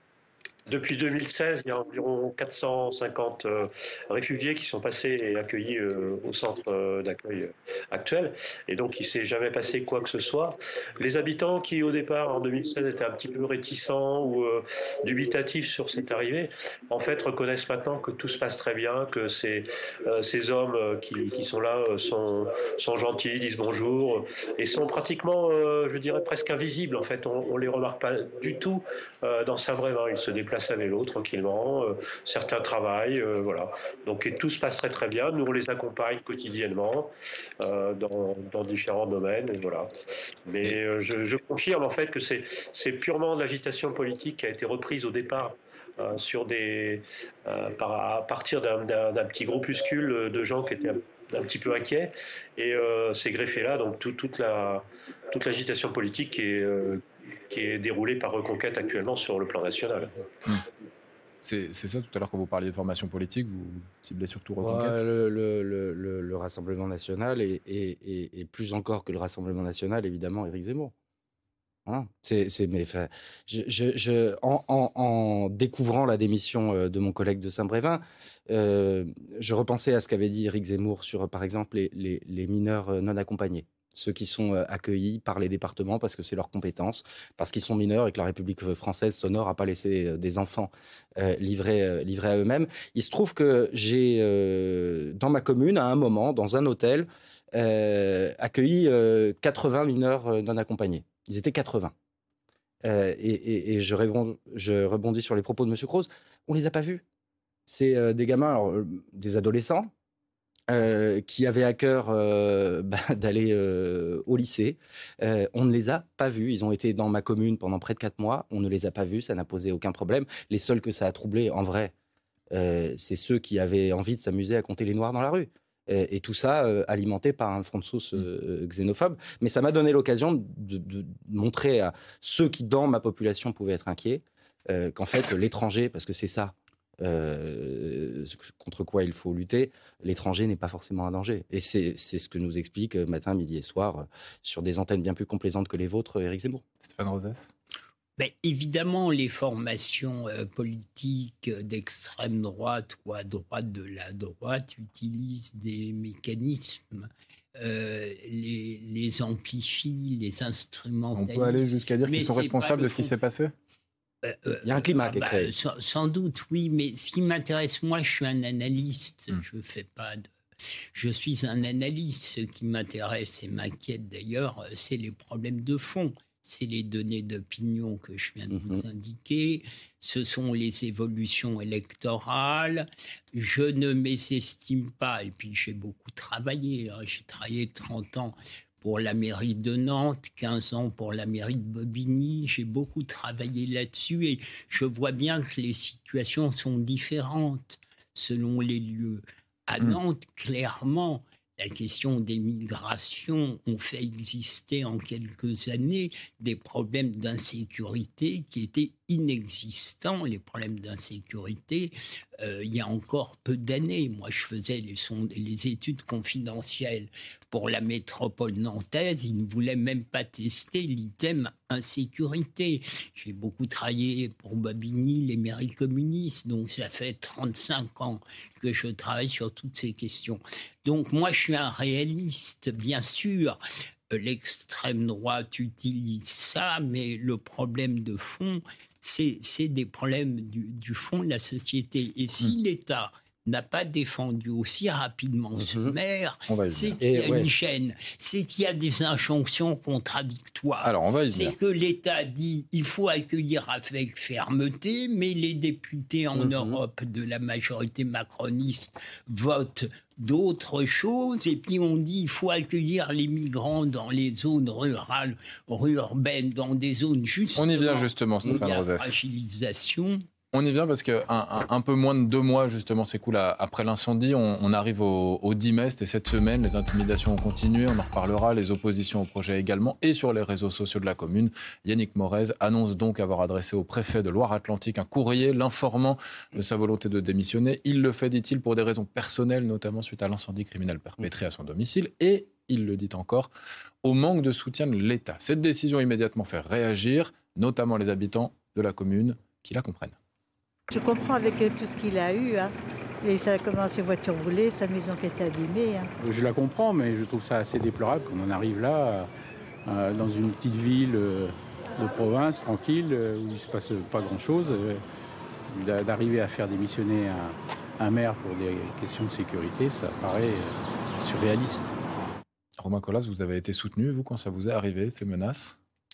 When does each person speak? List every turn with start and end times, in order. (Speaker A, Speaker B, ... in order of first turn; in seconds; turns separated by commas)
Speaker A: 0.7-39.9, Speaker A: 40.4-60.1, Speaker B: 61.4-65.0, Speaker C: 64.6-70.9, Speaker C: 71.8-101.9, Speaker C: 102.8-107.0, Speaker C: 107.7-109.9, Speaker C: 110.7-121.9, Speaker C: 122.5-146.6, Speaker B: 146.8-147.5, Speaker D: 148.2-163.1, Speaker B: 161.1-163.5, Speaker D: 164.2-170.3, Speaker C: 164.6-165.5, Speaker D: 170.9-233.6, Speaker C: 178.5-178.8, Speaker D: 234.1-270.2, Speaker C: 245.6-245.9, Speaker B: 246.5-247.0, Speaker C: 247.0-247.5, Speaker B: 250.8-251.5, Speaker C: 256.4-256.8, Speaker B: 267.6-269.1, Speaker B: 270.5-293.5, Speaker B: 294.0-300.1, Speaker E: 300.9-306.1, Speaker F: 306.2-309.3, Speaker F: 309.9-315.0, Speaker F: 315.7-321.9, Speaker B: 322.8-325.8